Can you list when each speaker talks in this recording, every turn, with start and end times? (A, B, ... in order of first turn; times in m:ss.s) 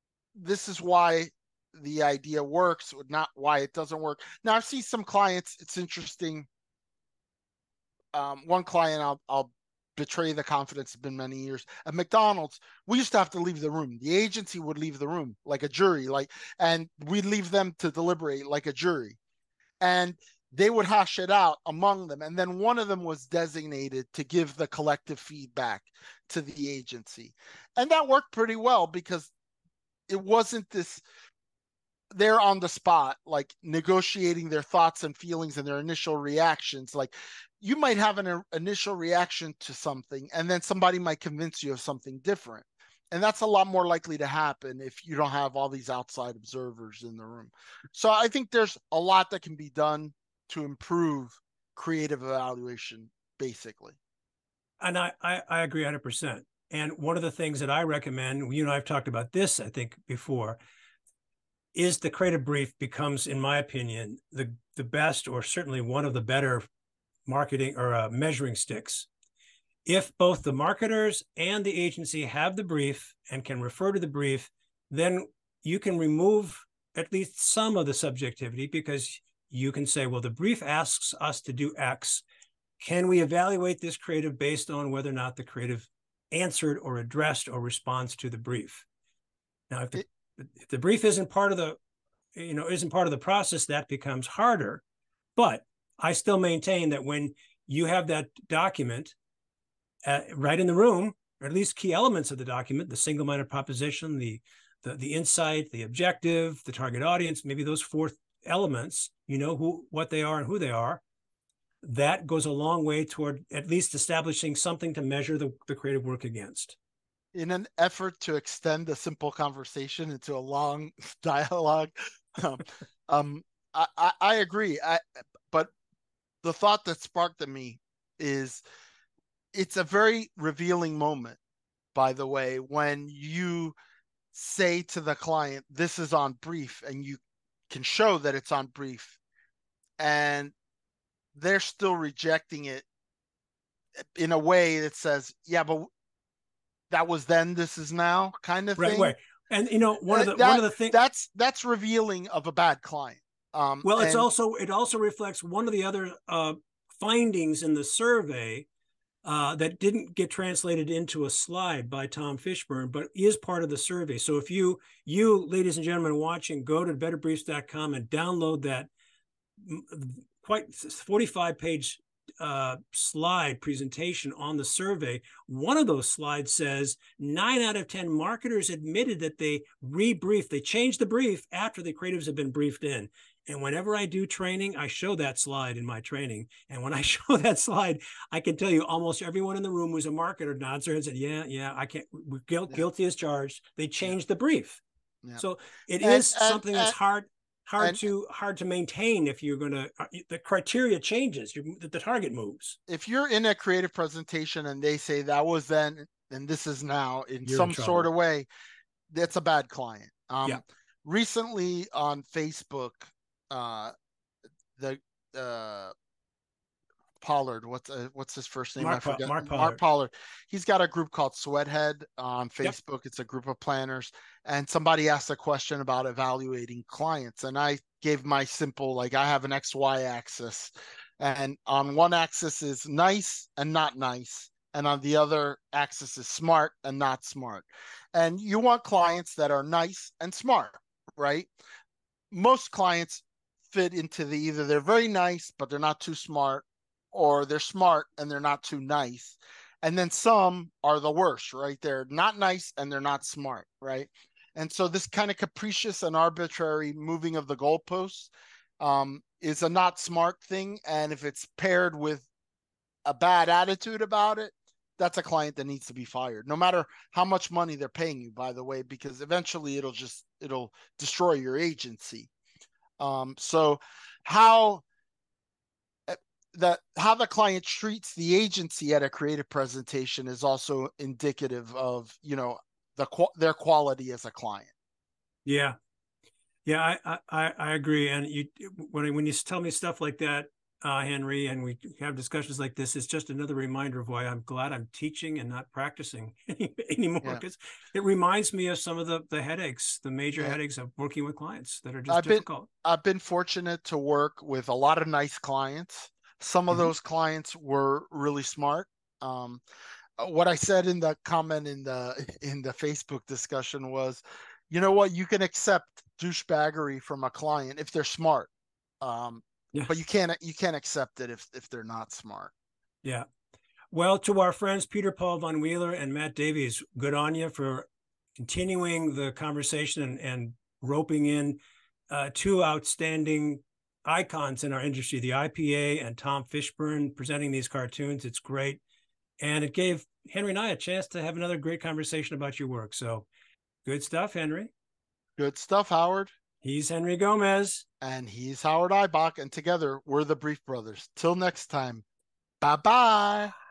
0:00.4-0:06.5 A
0:08.1-0:19.2 A
0:19.8-0:29.3 A
0:30.1-0:31.0 A
0:32.1-0:54.0 A
0:54.8-1:00.6 B
1:01.8-1:06.7 B
1:07.3-1:09.1 B
1:09.9-1:22.2 B
1:22.8-1:28.9 B
1:29.7-1:31.8 B
1:32.4-1:34.8 B
1:35.4-1:39.2 B
1:40.0-1:51.0 B
1:51.8-1:56.8 B
1:57.3-2:05.7 A
2:06.4-2:08.6 A
2:09.5-2:11.4 A
2:12.0-2:13.8 A
2:14.3-2:17.2 A
2:17.7-2:19.2 A
2:20.0-2:20.5 A
2:21.4-2:22.9 A
2:24.2-2:25.9 A
2:26.9-2:29.2 A
2:28.8-2:31.0 B
2:30.1-2:34.3 A
2:33.8-2:38.7 B
2:39.2-2:48.9 B
2:49.6-3:14.8 B
3:15.4-3:22.8 B
3:16.0-3:17.0 A
3:17.8-3:18.0 A
3:22.9-3:28.5 A
3:27.4-3:28.1 B
3:29.1-3:33.9 A
3:34.8-3:35.9 A
3:37.2-4:01.5 A
3:38.8-3:39.8 B
4:02.3-4:22.3 A
4:23.1-4:32.3 A
4:33.0-4:34.8 A
4:36.1-4:44.7 A
4:45.4-4:45.8 B
4:46.7-5:02.7 B
5:02.1-5:09.6 A
5:10.2-5:18.5 A
5:19.0-5:22.5 A
5:23.9-5:38.8 B
5:39.4-5:43.3 B
5:43.8-5:44.7 B
5:45.4-5:46.3 A
5:46.6-5:47.8 B
5:48.0-5:52.0 A
5:52.6-5:53.5 A